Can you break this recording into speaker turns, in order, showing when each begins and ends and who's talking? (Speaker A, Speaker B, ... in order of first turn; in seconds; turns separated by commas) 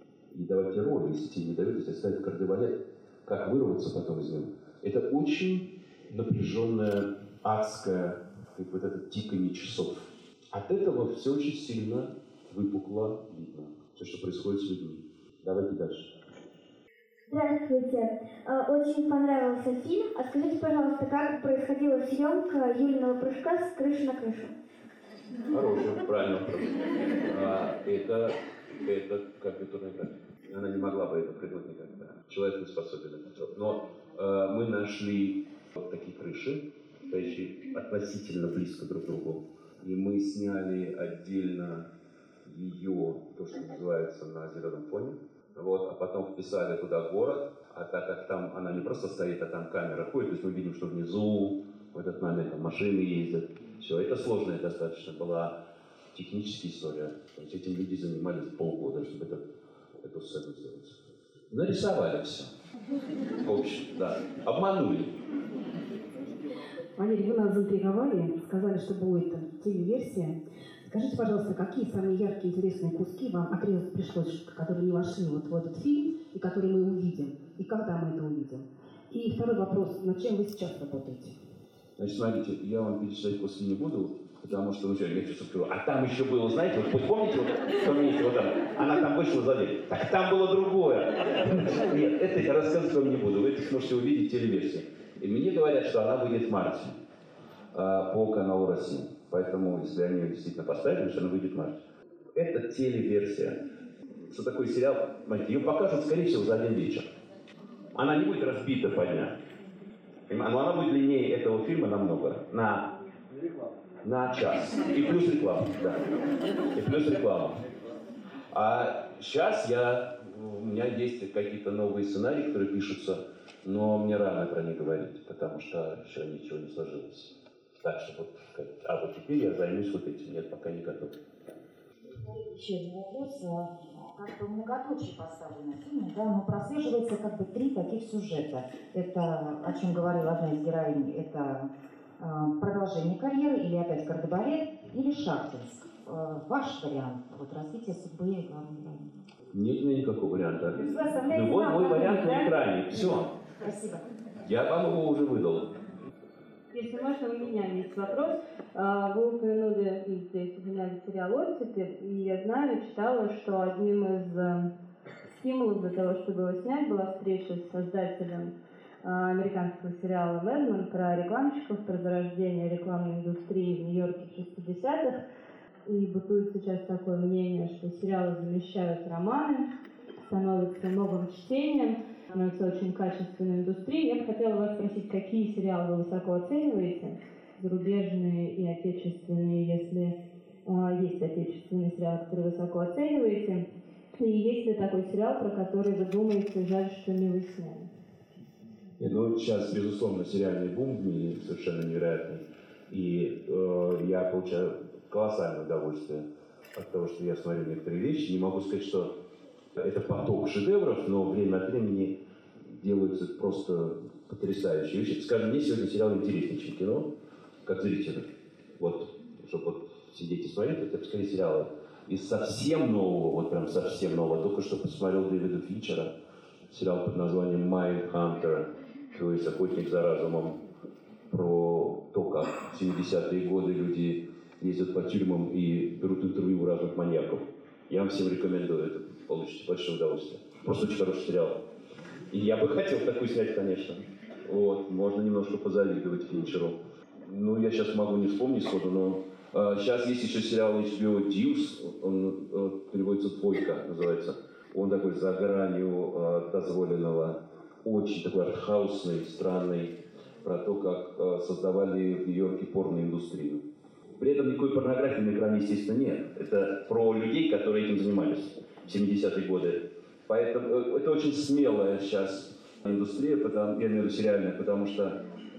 Speaker A: 0.3-16.1, Speaker B: 17.3-24.5, Speaker A: 25.5-41.9, Speaker A: 42.5-55.6, Speaker A: 56.1-59.5, Speaker A: 60.0-61.0, Speaker A: 61.5-62.5, Speaker A: 63.4-65.1, Speaker C: 67.0-81.4, Speaker A: 82.0-97.0, Speaker A: 97.7-101.8, Speaker A: 102.3-103.6, Speaker A: 104.3-107.1, Speaker A: 107.9-109.4, Speaker A: 110.3-112.9, Speaker A: 114.0-116.0, Speaker A: 116.8-117.6, Speaker A: 118.5-131.2, Speaker D: 132.1-149.1, Speaker A: 149.5-153.3, Speaker D: 150.8-152.3, Speaker B: 150.9-152.3, Speaker D: 153.6-154.0, Speaker A: 154.4-155.8, Speaker E: 156.7-164.7, Speaker E: 165.3-175.2, Speaker E: 175.9-179.7, Speaker E: 180.2-193.7, Speaker E: 194.2-197.9, Speaker A: 199.0-209.1, Speaker A: 209.8-212.2, Speaker A: 212.7-217.1, Speaker A: 217.7-226.1, Speaker A: 226.7-230.6, Speaker A: 231.3-241.6, Speaker A: 242.3-263.6, Speaker A: 264.2-275.2